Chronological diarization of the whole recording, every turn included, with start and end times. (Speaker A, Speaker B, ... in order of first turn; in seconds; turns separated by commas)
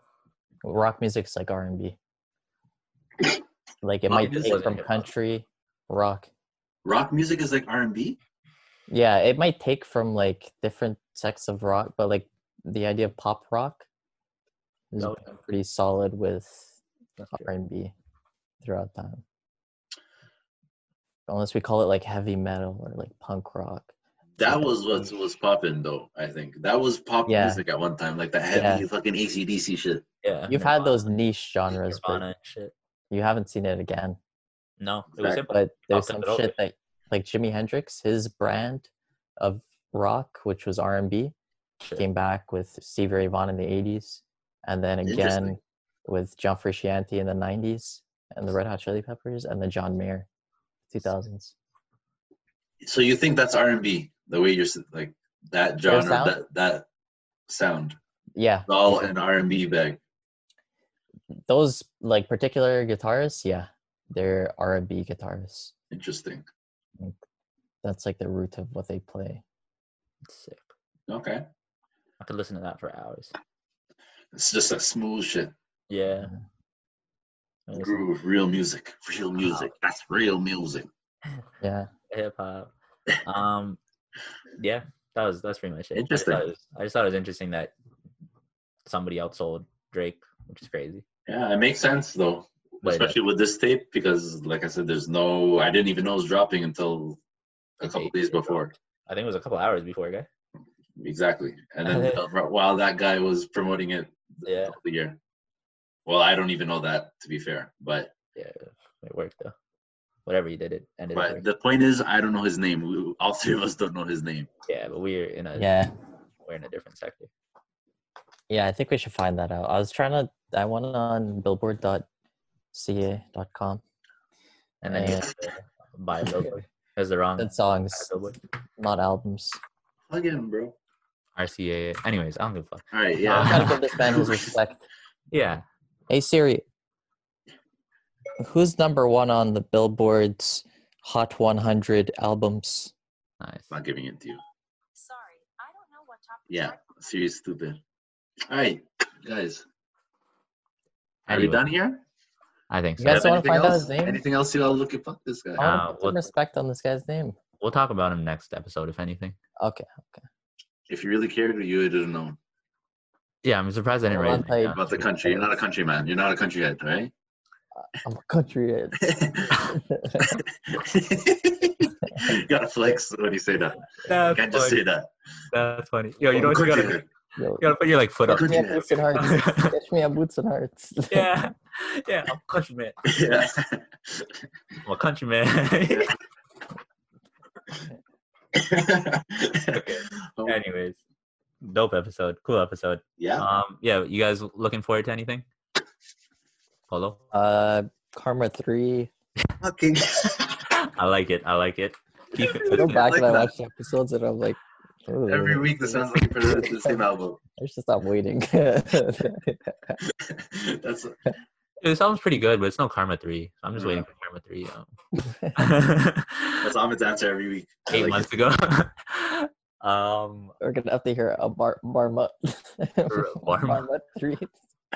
Speaker A: 0.6-2.0, Speaker A: 3.8-6.3, Speaker B: 4.1-4.8, Speaker C: 4.1-5.1, Speaker B: 6.8-8.2, Speaker A: 8.9-13.8, Speaker A: 14.9-16.8, Speaker C: 15.0-15.4, Speaker C: 17.2-17.5, Speaker A: 17.3-17.9, Speaker A: 18.6-19.2, Speaker A: 21.3-25.1, Speaker B: 24.4-30.1, Speaker A: 27.3-27.6, Speaker A: 28.5-28.9, Speaker C: 30.2-31.1, Speaker A: 30.5-32.2, Speaker C: 31.8-32.7, Speaker A: 33.1-34.2, Speaker C: 34.8-36.5, Speaker B: 35.2-35.4, Speaker A: 35.5-41.4, Speaker A: 41.9-50.3, Speaker B: 45.0-45.6, Speaker A: 50.9-51.5, Speaker B: 52.8-56.9, Speaker A: 55.9-56.4, Speaker B: 57.5-58.0, Speaker A: 58.4-59.1, Speaker B: 58.7-60.0, Speaker A: 61.5-65.7, Speaker B: 65.9-66.5, Speaker A: 67.8-69.4, Speaker C: 70.3-70.7, Speaker B: 71.1-71.4, Speaker C: 72.2-73.3, Speaker B: 74.3-75.5, Speaker C: 75.9-76.3, Speaker C: 77.7-78.0, Speaker B: 77.7-80.9, Speaker C: 79.4-79.7, Speaker A: 81.6-81.9, Speaker C: 82.1-82.7, Speaker C: 83.2-83.8, Speaker C: 84.6-87.7, Speaker B: 85.9-86.4, Speaker C: 88.8-91.0, Speaker B: 91.3-97.2, Speaker C: 92.8-93.2, Speaker B: 97.8-98.7, Speaker C: 97.8-100.3, Speaker B: 101.0-105.2, Speaker C: 101.8-102.3, Speaker C: 104.4-104.8, Speaker B: 106.1-108.1, Speaker C: 108.3-109.5, Speaker C: 110.3-111.4, Speaker B: 111.1-114.5, Speaker C: 114.7-115.7, Speaker A: 115.5-115.9, Speaker C: 116.4-117.3, Speaker A: 118.5-122.1, Speaker A: 122.7-123.8, Speaker C: 124.8-128.4, Speaker A: 124.8-125.3, Speaker A: 127.4-128.1, Speaker A: 128.8-129.6, Speaker B: 130.1-130.8, Speaker C: 131.3-133.8, Speaker B: 132.9-134.3, Speaker A: 133.2-134.8, Speaker C: 135.3-135.6, Speaker A: 136.1-136.6, Speaker A: 138.4-142.9, Speaker C: 143.4-143.7, Speaker B: 143.7-144.4, Speaker D: 144.9-147.2, Speaker B: 146.5-147.8, Speaker B: 148.5-149.6, Speaker C: 151.3-151.6, Speaker B: 151.3-152.0, Speaker C: 152.7-153.3, Speaker A: 153.0-154.2, Speaker B: 153.0-155.7, Speaker A: 155.6-157.4, Speaker C: 155.6-156.3, Speaker C: 157.6-159.4, Speaker A: 159.6-160.2, Speaker B: 160.9-162.4, Speaker C: 163.4-165.0, Speaker A: 164.1-165.6, Speaker B: 164.7-167.1, Speaker A: 167.7-170.4, Speaker B: 169.1-169.7, Speaker B: 170.3-175.1, Speaker C: 174.1-174.8, Speaker C: 175.5-177.0, Speaker B: 176.3-177.1, Speaker A: 177.4-177.7, Speaker C: 177.6-179.7, Speaker B: 178.3-179.1, Speaker A: 178.3-181.3, Speaker C: 181.1-183.0, Speaker B: 183.1-184.3, Speaker C: 184.8-186.1, Speaker B: 188.6-190.6, Speaker C: 189.7-191.0, Speaker C: 191.6-195.4, Speaker B: 193.2-193.5, Speaker C: 196.9-197.2, Speaker A: 197.3-199.1, Speaker B: 199.6-200.6, Speaker C: 200.8-203.1, Speaker B: 202.4-203.5, Speaker A: 202.7-207.0, Speaker B: 205.3-207.4, Speaker A: 207.6-210.0, Speaker B: 210.2-211.3, Speaker C: 211.8-214.9, Speaker B: 213.8-214.1, Speaker A: 215.2-215.6, Speaker C: 215.6-216.7, Speaker B: 216.6-218.3, Speaker C: 217.9-220.5, Speaker A: 220.6-224.6, Speaker C: 223.1-223.9